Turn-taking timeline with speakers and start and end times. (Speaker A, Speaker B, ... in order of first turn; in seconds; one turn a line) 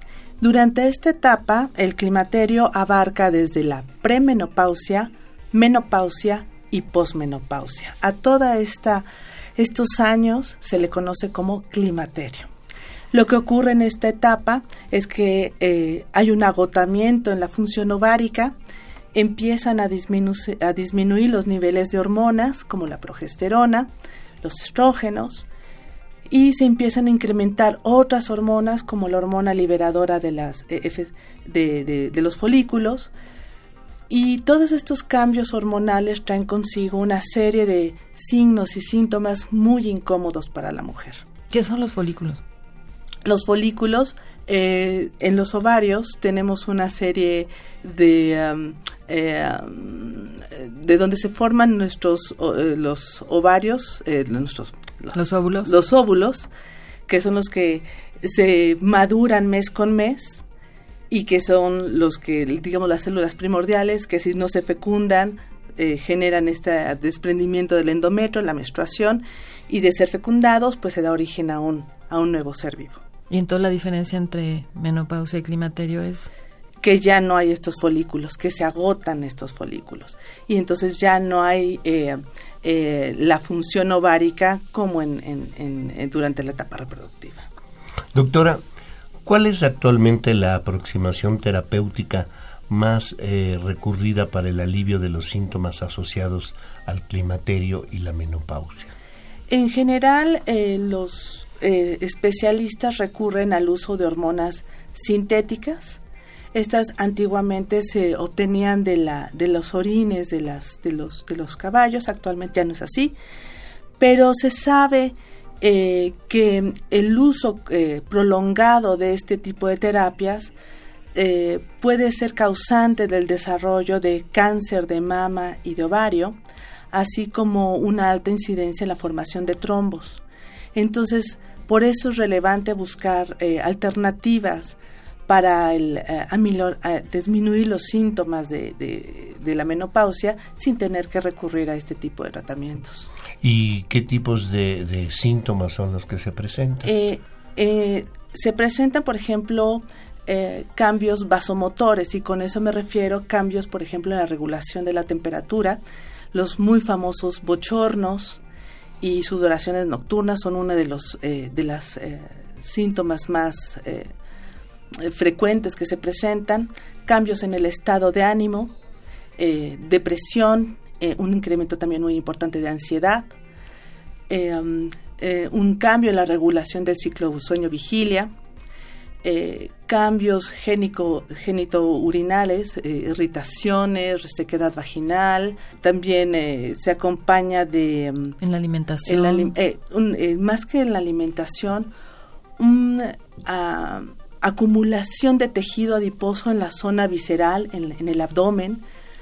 Speaker A: 0.4-12.5
Speaker A: 13.1-18.6
Speaker A: 19.1-23.9
Speaker A: 24.4-25.5
Speaker A: 26.3-33.1
Speaker A: 34.1-41.2
Speaker B: 41.5-42.4
Speaker A: 43.2-56.5
Speaker B: 55.1-55.7
Speaker A: 57.1-60.4
Speaker A: 61.1-73.0
Speaker B: 73.3-76.3
Speaker A: 76.8-87.5
Speaker C: 88.1-88.6
Speaker C: 89.2-98.9
Speaker A: 99.5-106.0
Speaker A: 106.5-113.2
Speaker A: 114.0-120.5
Speaker A: 121.2-126.4
Speaker A: 126.9-130.2
Speaker A: 130.8-143.1
Speaker C: 143.4-146.9
Speaker A: 146.8-155.8
Speaker A: 156.3-158.4
Speaker A: 159.0-164.1
Speaker A: 165.0-168.7
Speaker A: 169.4-173.3
Speaker A: 174.3-178.3
Speaker A: 179.2-188.4
Speaker B: 188.4-189.5
Speaker A: 189.1-191.9
Speaker A: 192.6-198.8